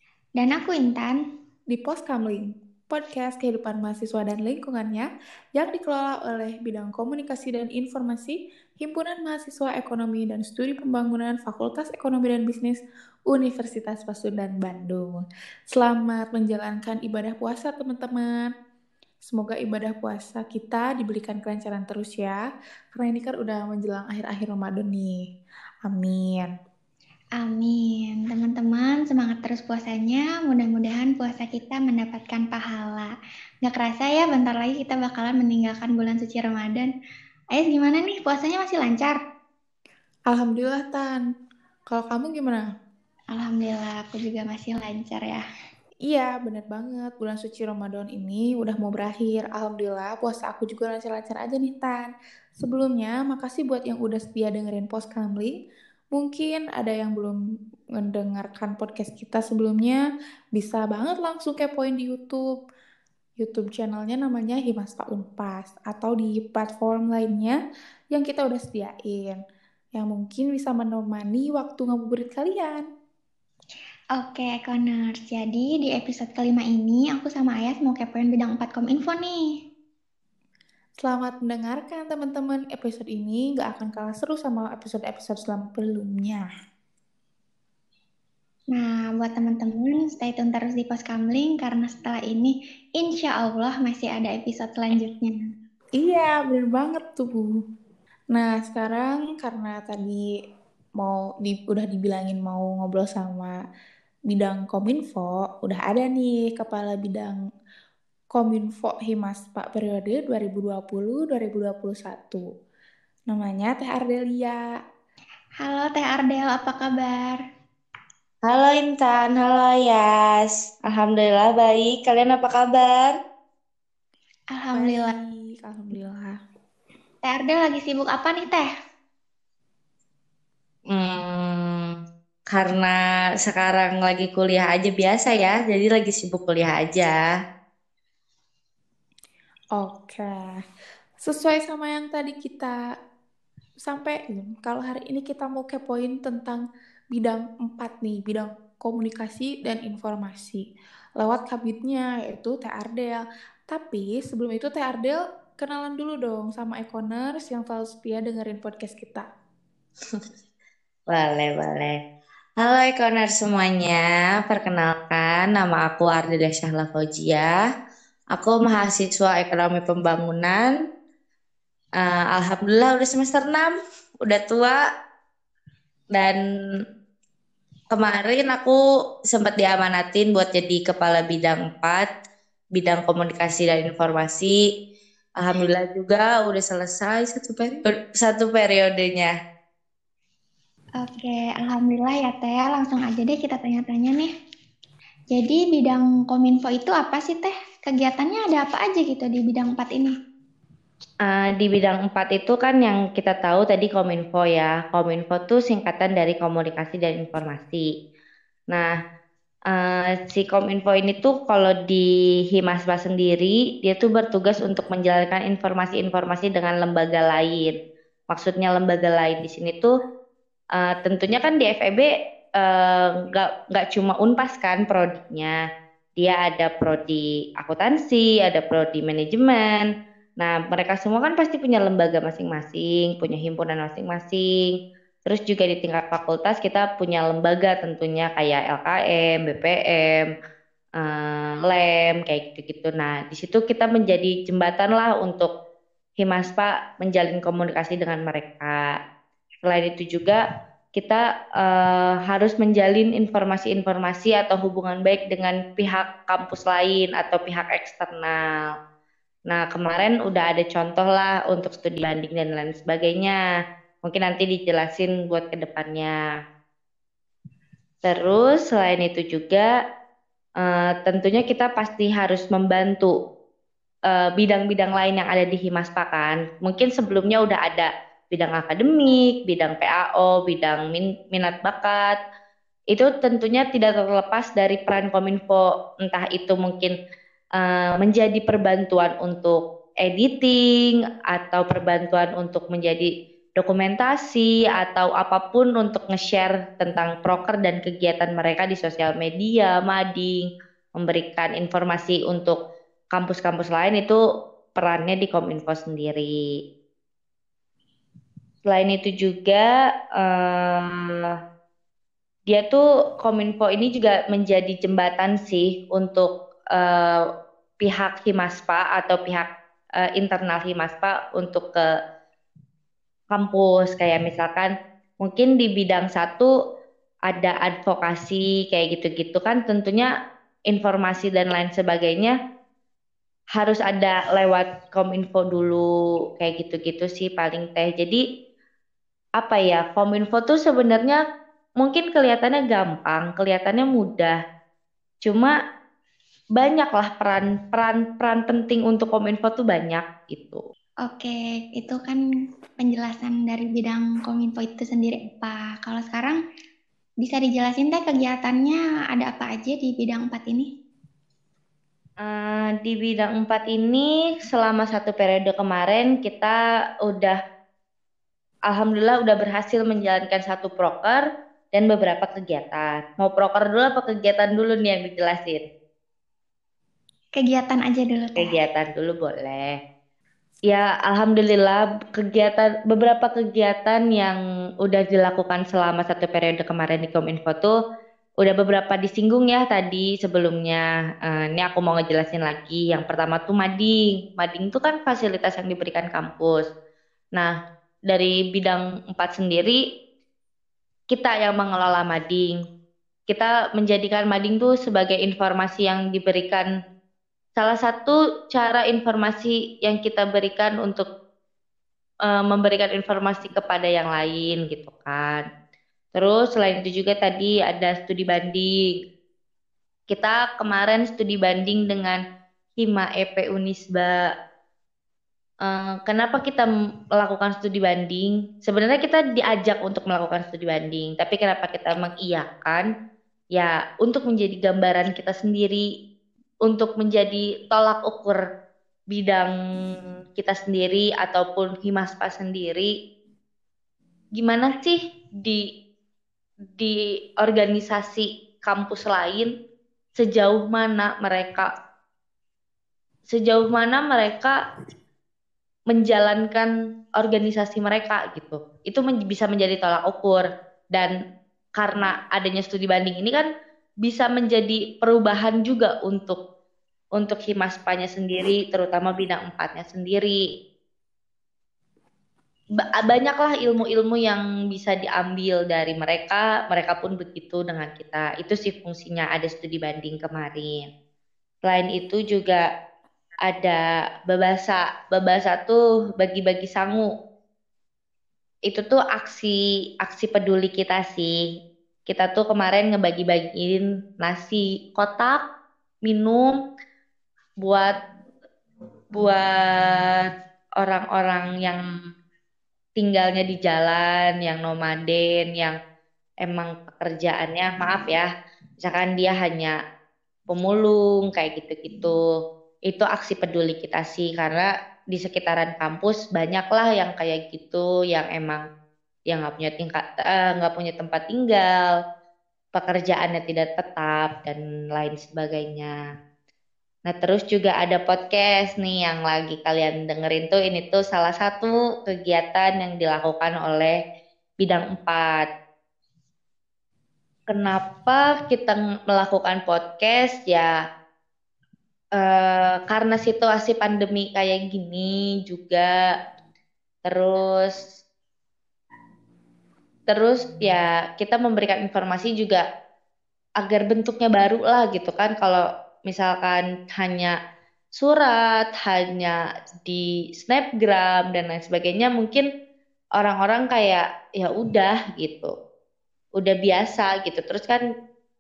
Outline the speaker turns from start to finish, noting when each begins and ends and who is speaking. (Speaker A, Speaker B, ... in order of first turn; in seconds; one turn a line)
Speaker A: 0.4-1.2
Speaker B: 1.7-18.5
Speaker B: 19.2-22.4
Speaker B: 22.9-25.2
Speaker B: 25.9-26.5
Speaker A: 27.4-33.1
Speaker A: 33.6-36.9
Speaker A: 37.5-39.2
Speaker B: 40.3-41.2
Speaker B: 41.9-42.6
Speaker A: 43.3-45.4
Speaker B: 46.1-55.6
Speaker B: 56.1-57.4
Speaker B: 58.0-60.0
Speaker B: 60.6-62.5
Speaker B: 63.4-67.6
Speaker B: 68.1-69.4
Speaker B: 70.0-72.8
Speaker A: 74.2-79.4
Speaker B: 81.0-86.5
Speaker A: 88.7-95.4
Speaker B: 96.0-97.6
Speaker B: 98.3-100.2
Speaker B: 101.0-103.5
Speaker B: 104.3-107.4
Speaker B: 108.3-112.5
Speaker B: 113.3-114.6
Speaker A: 115.6-117.4
Speaker C: 118.5-123.2
Speaker A: 124.5-125.1
Speaker B: 124.7-126.4
Speaker A: 127.2-128.7
Speaker C: 130.9-132.0
Speaker C: 132.5-137.2
Speaker B: 139.8-140.6
Speaker B: 141.2-142.8
Speaker B: 143.9-146.6
Speaker B: 147.2-150.7
Speaker B: 151.2-159.3
Speaker C: 161.1-162.0
Speaker C: 162.6-167.6
Speaker C: 168.3-170.7
Speaker C: 172.0-174.8
Speaker C: 176.1-176.4
Speaker C: 177.9-182.1
Speaker C: 182.8-184.6
Speaker C: 185.4-189.3
Speaker A: 191.0-194.3
Speaker A: 195.3-200.1
Speaker C: 201.2-207.9
Speaker C: 209.7-217.8
Speaker C: 218.3-219.9
Speaker C: 220.8-225.6
Speaker C: 226.2-234.8
Speaker C: 235.3-240.3
Speaker C: 241.0-245.5
Speaker C: 246.2-249.0
Speaker C: 249.6-250.4
Speaker C: 251.0-258.7
Speaker C: 259.5-263.4
Speaker C: 264.0-266.2
Speaker C: 268.0-269.7
Speaker C: 270.6-273.1
Speaker C: 274.1-282.2
Speaker C: 282.9-287.0
Speaker C: 287.6-302.6
Speaker C: 303.1-304.2
Speaker C: 304.8-306.3
Speaker C: 308.7-311.3
Speaker C: 312.5-317.2
Speaker C: 317.8-319.5
Speaker C: 320.0-321.9
Speaker C: 323.3-326.5
Speaker C: 327.3-330.1
Speaker C: 330.7-332.4
Speaker C: 333.6-338.2
Speaker C: 339.4-341.2
Speaker C: 341.8-344.4
Speaker C: 345.2-345.6
Speaker C: 346.6-350.6
Speaker A: 351.1-352.2
Speaker A: 352.8-356.4
Speaker A: 357.2-360.7
Speaker C: 362.2-367.4
Speaker C: 368.7-375.6
Speaker A: 377.4-378.6
Speaker C: 378.4-379.8
Speaker C: 380.7-387.8
Speaker C: 388.4-396.7
Speaker C: 398.1-399.8
Speaker C: 401.1-402.6
Speaker C: 403.3-406.7
Speaker C: 407.6-411.1
Speaker C: 412.2-415.5
Speaker C: 416.1-419.0
Speaker C: 420.1-422.2
Speaker C: 422.8-424.3
Speaker C: 425.6-432.9
Speaker C: 433.6-435.9
Speaker C: 436.6-438.4
Speaker C: 439.1-442.9
Speaker C: 444.4-445.7
Speaker C: 446.7-449.5
Speaker C: 450.2-451.7
Speaker C: 453.3-454.6
Speaker C: 455.9-461.1
Speaker C: 461.8-463.5
Speaker C: 464.0-466.4
Speaker C: 467.2-470.4
Speaker C: 472.8-480.9
Speaker C: 481.6-482.7
Speaker C: 483.4-487.1
Speaker C: 488.7-491.4
Speaker C: 492.1-495.4
Speaker C: 496.1-496.5
Speaker C: 497.6-497.9
Speaker C: 499.1-501.8
Speaker C: 503.0-505.8
Speaker C: 506.4-508.3
Speaker C: 508.8-509.8
Speaker C: 510.5-512.2
Speaker C: 512.9-518.6
Speaker C: 519.3-521.9
Speaker C: 522.7-526.0
Speaker C: 527.1-534.0
Speaker C: 534.6-535.5
Speaker C: 537.5-540.8
Speaker C: 542.2-545.9
Speaker C: 547.0-547.9
Speaker C: 550.1-552.6
Speaker C: 553.6-557.4
Speaker C: 558.0-562.5
Speaker C: 563.2-565.5
Speaker C: 566.4-567.8